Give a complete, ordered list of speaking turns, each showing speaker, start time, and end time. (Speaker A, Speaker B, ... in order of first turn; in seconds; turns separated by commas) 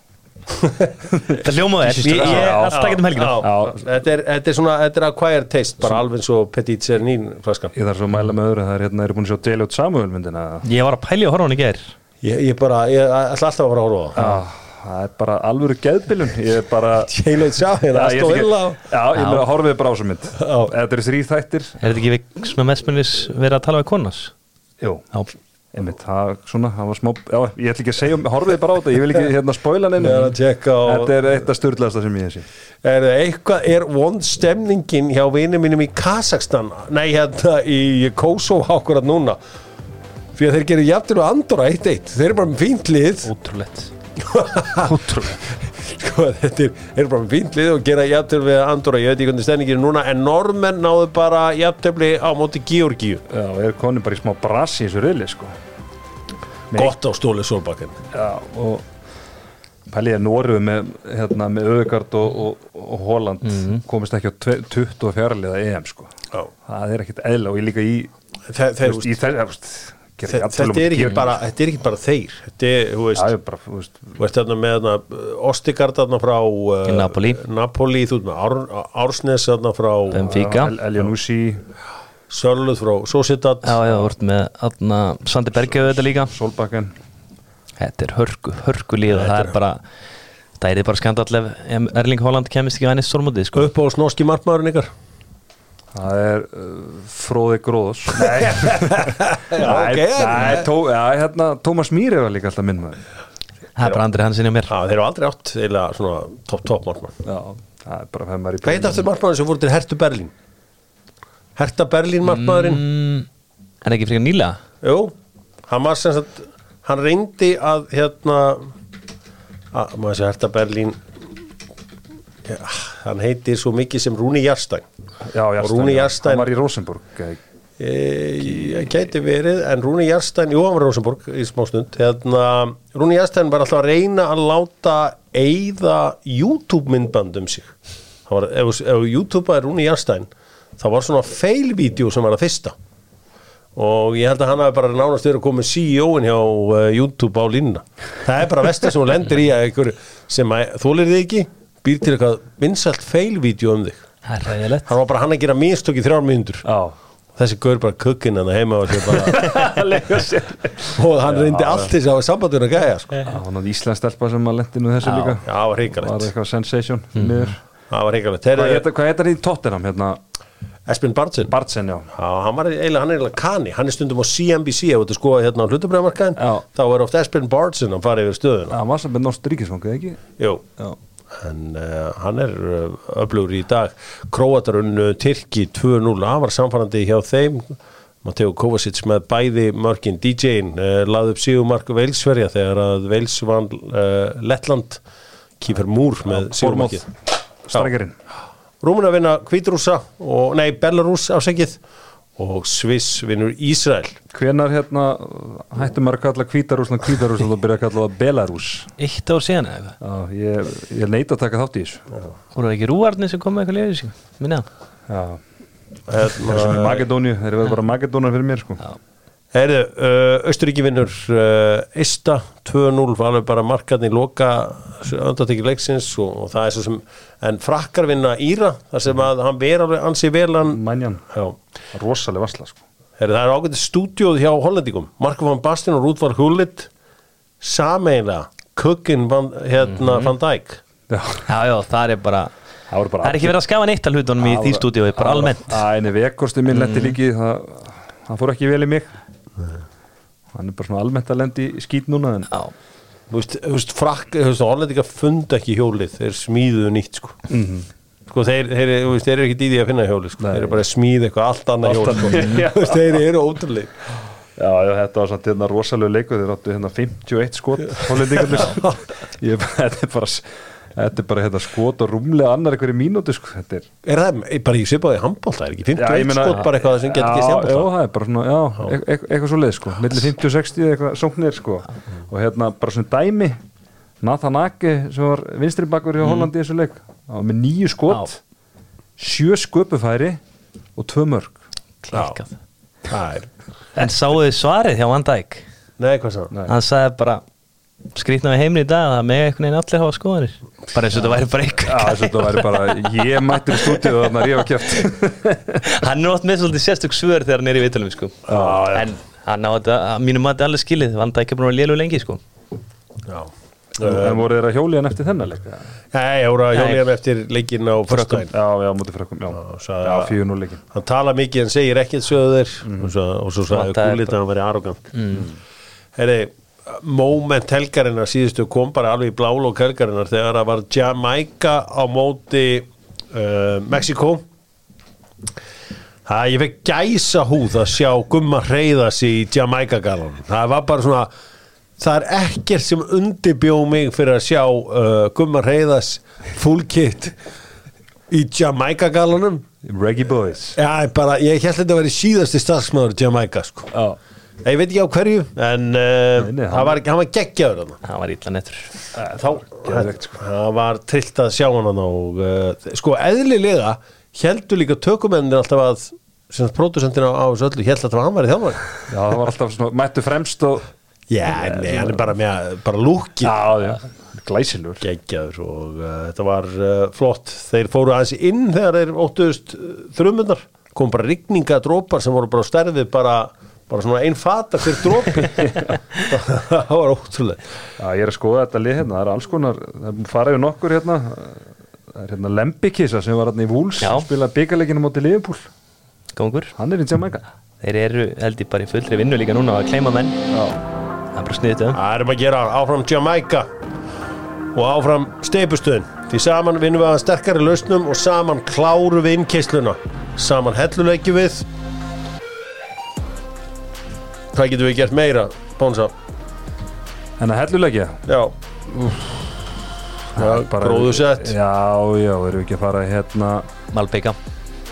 Speaker A: 0.5-1.0, Speaker B: 1.3-3.4, Speaker C: 1.4-3.8, Speaker A: 2.0-7.7, Speaker C: 7.7-10.6, Speaker B: 10.6-11.9, Speaker A: 12.2-14.4, Speaker C: 14.2-17.2, Speaker A: 17.1-18.8, Speaker C: 17.9-21.8, Speaker B: 19.1-19.4, Speaker A: 20.4-20.7, Speaker B: 21.8-24.3, Speaker C: 25.7-32.5, Speaker A: 30.0-31.1, Speaker A: 32.8-39.4, Speaker A: 40.3-43.3, Speaker B: 43.2-43.9, Speaker A: 44.2-53.2, Speaker C: 44.8-45.3, Speaker C: 53.3-55.5, Speaker A: 56.7-58.0, Speaker C: 58.1-58.8, Speaker C: 59.9-66.1, Speaker C: 66.7-68.1, Speaker A: 68.5-69.1, Speaker C: 68.8-71.3, Speaker A: 70.3-73.3, Speaker C: 73.1-74.2, Speaker A: 74.2-80.2, Speaker B: 76.8-77.4, Speaker B: 80.1-80.7, Speaker C: 80.1-81.6, Speaker A: 82.3-83.8, Speaker B: 83.6-86.3, Speaker C: 85.8-86.9, Speaker B: 87.8-89.8, Speaker A: 89.1-89.5, Speaker B: 90.6-93.7, Speaker A: 93.5-94.9, Speaker C: 95.9-103.0, Speaker A: 98.1-100.7, Speaker B: 103.8-104.7, Speaker A: 104.7-107.2, Speaker C: 107.2-109.0, Speaker A: 108.6-110.3, Speaker A: 111.5-112.8, Speaker B: 112.2-113.3, Speaker B: 113.8-114.6, Speaker A: 114.8-115.1, Speaker A: 115.7-118.7, Speaker A: 119.7-121.0, Speaker A: 122.4-124.8, Speaker C: 125.3-127.4, Speaker A: 125.6-126.5, Speaker A: 127.8-137.7, Speaker A: 138.3-142.8, Speaker A: 143.7-154.0, Speaker B: 154.2-154.9, Speaker A: 154.8-156.6, Speaker C: 156.6-156.9, Speaker A: 157.3-159.6, Speaker C: 159.1-161.9, Speaker A: 160.9-163.2, Speaker C: 163.2-167.6, Speaker A: 165.0-166.3, Speaker B: 167.2-167.5, Speaker A: 167.9-168.8, Speaker C: 168.5-170.2, Speaker A: 170.8-171.5, Speaker C: 171.5-172.1, Speaker A: 172.1-178.8, Speaker C: 176.4-176.7, Speaker C: 178.7-180.2, Speaker A: 180.4-180.6, Speaker A: 181.3-195.0, Speaker A: 195.6-197.1, Speaker C: 196.3-197.1, Speaker C: 197.7-198.1, Speaker A: 198.8-201.8, Speaker A: 202.4-204.2, Speaker C: 204.3-208.9, Speaker B: 209.0-209.9, Speaker C: 210.0-212.0, Speaker B: 212.5-214.7, Speaker C: 215.1-215.4, Speaker A: 216.1-217.1, Speaker C: 216.4-218.8, Speaker A: 219.5-230.8, Speaker C: 230.7-231.2, Speaker C: 231.9-232.8, Speaker A: 233.2-236.9, Speaker A: 237.6-240.8, Speaker B: 239.9-240.3, Speaker C: 241.1-241.4, Speaker B: 241.4-242.5, Speaker C: 242.9-243.6, Speaker B: 243.2-245.8, Speaker C: 244.4-249.1, Speaker B: 246.7-247.2, Speaker C: 250.5-252.5, Speaker A: 253.3-257.4, Speaker C: 257.5-257.9, Speaker A: 258.3-263.9, Speaker C: 260.4-260.8, Speaker C: 261.8-263.2, Speaker C: 264.6-273.9, Speaker A: 268.5-269.0, Speaker A: 274.0-277.9, Speaker C: 275.9-283.6, Speaker C: 284.2-288.4, Speaker C: 289.2-290.4, Speaker C: 290.9-291.6, Speaker B: 292.0-292.5, Speaker A: 292.1-292.4, Speaker A: 293.1-293.5, Speaker B: 293.9-295.6, Speaker A: 296.0-296.5, Speaker B: 296.7-297.4, Speaker B: 298.1-302.7, Speaker C: 301.8-305.9, Speaker B: 303.8-304.1, Speaker B: 305.8-312.4, Speaker A: 308.5-309.1, Speaker A: 313.2-314.4, Speaker C: 314.0-315.8, Speaker A: 316.1-318.5, Speaker B: 316.7-317.0, Speaker B: 318.1-318.4, Speaker C: 318.5-320.8, Speaker A: 319.5-320.3, Speaker A: 320.9-325.1, Speaker C: 322.9-323.1, Speaker B: 323.7-324.3, Speaker B: 325.1-325.4, Speaker A: 326.1-334.4, Speaker A: 336.2-341.3, Speaker A: 342.0-347.4, Speaker A: 348.3-349.6, Speaker C: 349.8-350.8, Speaker A: 350.8-353.9, Speaker C: 353.9-354.2, Speaker A: 354.6-358.0, Speaker C: 356.4-357.0, Speaker B: 358.0-358.9, Speaker C: 359.1-360.3, Speaker A: 359.3-368.9, Speaker C: 369.1-370.9, Speaker A: 371.3-373.6, Speaker C: 371.4-372.3, Speaker C: 373.4-375.0, Speaker A: 375.0-387.6, Speaker C: 388.0-391.6, Speaker C: 392.1-395.7, Speaker B: 394.0-394.3, Speaker B: 396.3-396.7, Speaker C: 396.8-397.4, Speaker B: 397.8-400.4, Speaker C: 400.5-400.8, Speaker B: 401.3-402.0, Speaker A: 401.9-403.7, Speaker A: 404.7-411.6, Speaker A: 414.5-416.1, Speaker C: 417.4-418.2, Speaker A: 418.3-419.2, Speaker A: 420.3-421.5, Speaker C: 420.3-423.7, Speaker B: 423.9-424.4